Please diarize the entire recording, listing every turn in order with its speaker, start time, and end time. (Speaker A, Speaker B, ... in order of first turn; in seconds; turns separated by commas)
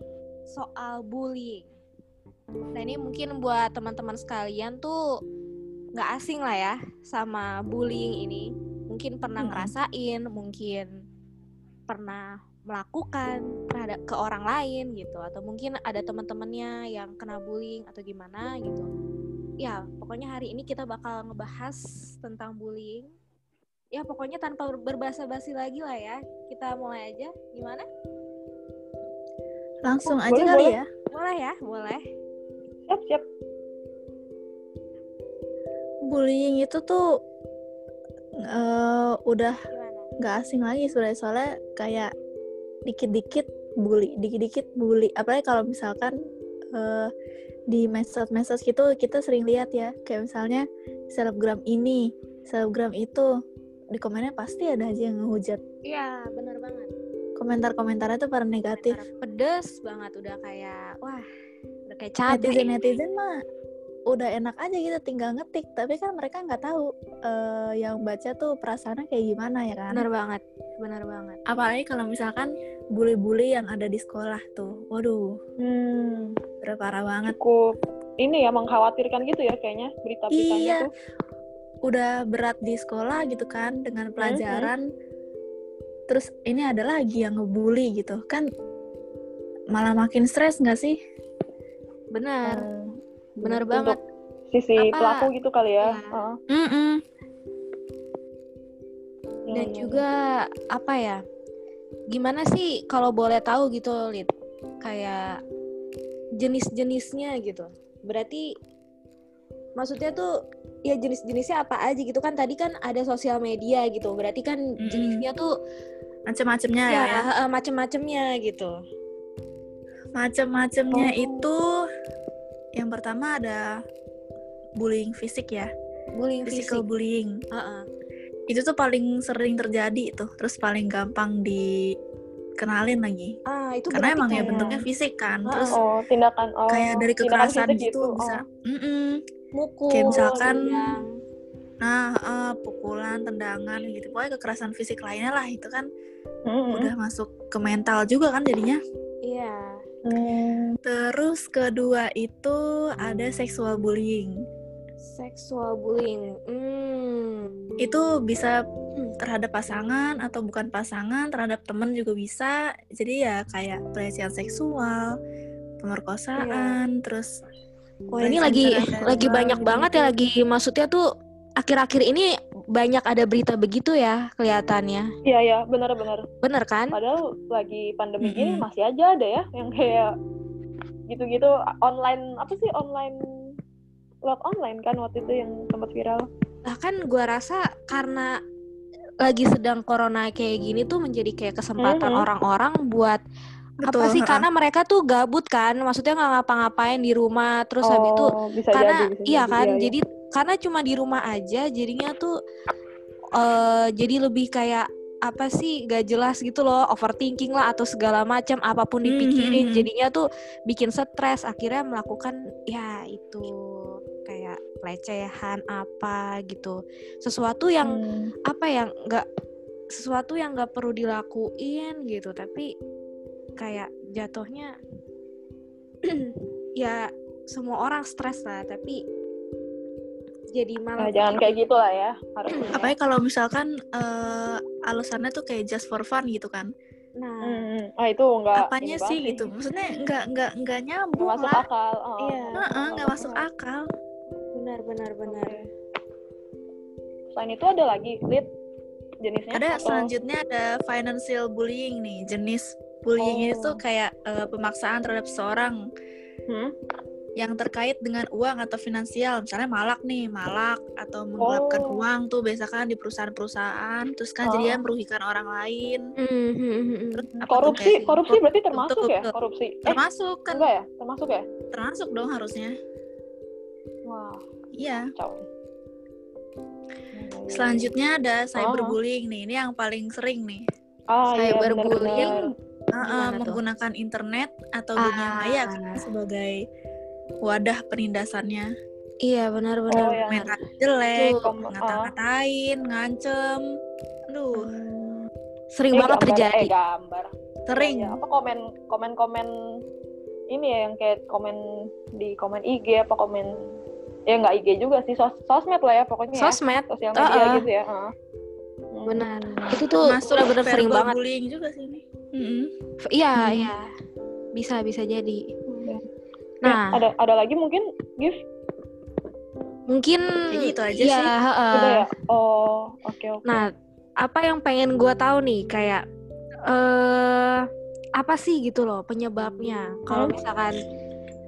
Speaker A: 0.5-1.7, Speaker A: 2.8-5.0, Speaker A: 6.0-10.9, Speaker B: 9.4-9.7, Speaker A: 11.9-18.9, Speaker A: 19.6-23.1, Speaker A: 23.9-27.9, Speaker B: 29.9-30.9, Speaker C: 30.2-30.8, Speaker A: 31.1-32.0, Speaker C: 32.9-33.2, Speaker B: 36.1-37.0, Speaker B: 38.4-39.6, Speaker A: 39.7-40.1, Speaker B: 40.2-42.1, Speaker B: 42.9-46.1, Speaker B: 46.8-47.1, Speaker B: 47.7-53.3, Speaker B: 53.9-55.6, Speaker A: 55.9-56.9, Speaker B: 57.4-59.0, Speaker A: 58.8-61.2, Speaker A: 61.9-62.7, Speaker B: 62.3-63.4, Speaker B: 64.1-70.0, Speaker A: 69.9-71.4, Speaker B: 71.5-75.3, Speaker C: 75.6-76.4, Speaker B: 76.6-77.4, Speaker C: 77.3-80.9, Speaker B: 80.3-80.9, Speaker B: 81.9-84.8, Speaker C: 84.2-84.7, Speaker B: 86.1-88.5, Speaker B: 89.7-91.0, Speaker A: 92.1-92.7, Speaker C: 92.5-92.9, Speaker C: 93.4-94.0, Speaker A: 93.4-94.0, Speaker C: 94.5-96.4, Speaker A: 94.8-95.3, Speaker A: 95.8-96.1, Speaker B: 96.5-97.0, Speaker C: 99.5-100.0, Speaker A: 99.5-101.2, Speaker A: 102.1-104.3, Speaker A: 104.8-105.3, Speaker A: 106.4-108.5, Speaker A: 109.8-110.3, Speaker A: 110.9-115.5, Speaker B: 114.8-115.2, Speaker B: 116.3-117.2, Speaker A: 116.9-118.7, Speaker B: 120.2-121.6, Speaker C: 120.9-121.5, Speaker B: 122.8-123.7, Speaker B: 124.8-125.7, Speaker A: 126.2-126.8, Speaker B: 126.5-127.3, Speaker A: 127.5-127.8, Speaker B: 128.5-131.8, Speaker B: 132.6-133.3, Speaker A: 133.5-134.7, Speaker B: 133.9-135.8, Speaker C: 134.3-134.8, Speaker A: 135.5-135.8, Speaker C: 135.7-138.4, Speaker B: 136.7-139.2, Speaker A: 139.6-141.1, Speaker B: 139.9-140.9, Speaker B: 141.8-145.9, Speaker C: 146.5-146.9, Speaker B: 146.7-148.8, Speaker A: 149.2-149.8, Speaker C: 150.1-150.8, Speaker B: 150.9-154.4, Speaker A: 155.0-157.5, Speaker B: 157.8-158.6, Speaker B: 159.2-165.1, Speaker B: 165.8-167.3, Speaker C: 166.4-166.8, Speaker B: 168.1-170.1, Speaker A: 168.2-171.0, Speaker A: 171.6-175.1, Speaker C: 175.2-176.3, Speaker A: 176.4-177.0, Speaker C: 176.9-180.1, Speaker B: 178.2-178.6, Speaker C: 181.1-183.2, Speaker C: 184.3-186.3, Speaker A: 186.7-188.3, Speaker A: 189.2-193.2, Speaker C: 191.8-192.2, Speaker B: 193.8-194.4, Speaker A: 193.9-202.3, Speaker C: 197.8-199.9, Speaker A: 203.3-218.0, Speaker B: 209.1-209.9, Speaker C: 217.9-218.3, Speaker A: 218.5-219.2, Speaker A: 219.9-222.7, Speaker A: 223.6-224.7, Speaker A: 226.1-229.0, Speaker A: 230.5-231.6, Speaker C: 231.0-232.8, Speaker A: 232.5-232.9, Speaker B: 232.7-236.7, Speaker A: 237.2-237.7, Speaker C: 237.5-239.5, Speaker B: 238.6-241.7, Speaker C: 241.2-243.4, Speaker A: 242.2-242.6, Speaker B: 242.6-243.8, Speaker A: 244.6-245.6, Speaker C: 245.3-245.7, Speaker C: 247.3-248.5, Speaker C: 249.2-250.1, Speaker B: 249.5-255.8, Speaker C: 253.2-253.8, Speaker B: 257.4-266.1, Speaker C: 261.4-262.0, Speaker C: 264.5-264.8, Speaker A: 266.2-268.2, Speaker B: 267.1-269.3, Speaker C: 267.4-270.0, Speaker B: 269.9-270.7, Speaker C: 270.5-271.4, Speaker B: 271.7-272.7, Speaker C: 274.1-274.4, Speaker B: 274.8-275.1, Speaker C: 275.2-275.4, Speaker C: 277.1-277.9, Speaker B: 277.5-280.6, Speaker C: 278.6-278.9, Speaker C: 281.1-282.5, Speaker A: 281.3-282.4, Speaker B: 282.9-286.6, Speaker A: 283.0-283.6, Speaker A: 285.0-286.0, Speaker B: 287.4-288.7, Speaker A: 289.2-290.5, Speaker C: 289.9-290.5, Speaker B: 290.3-293.7, Speaker A: 291.2-291.4, Speaker C: 291.4-292.1, Speaker B: 294.3-294.7, Speaker C: 294.5-295.3, Speaker A: 295.8-296.7, Speaker C: 295.9-299.5, Speaker B: 297.7-298.2, Speaker C: 300.5-301.6, Speaker C: 302.2-303.6, Speaker C: 304.3-308.1, Speaker A: 306.4-307.6, Speaker C: 308.9-309.8, Speaker A: 309.1-311.2, Speaker B: 310.1-312.7, Speaker A: 313.1-313.9, Speaker B: 313.4-313.7, Speaker A: 314.6-315.4, Speaker C: 315.7-316.0, Speaker A: 316.6-317.0, Speaker C: 316.6-318.4, Speaker A: 319.9-322.0, Speaker B: 320.5-321.3, Speaker C: 321.7-323.7, Speaker A: 324.2-326.0, Speaker A: 326.7-327.7, Speaker A: 328.2-330.8, Speaker C: 330.1-330.4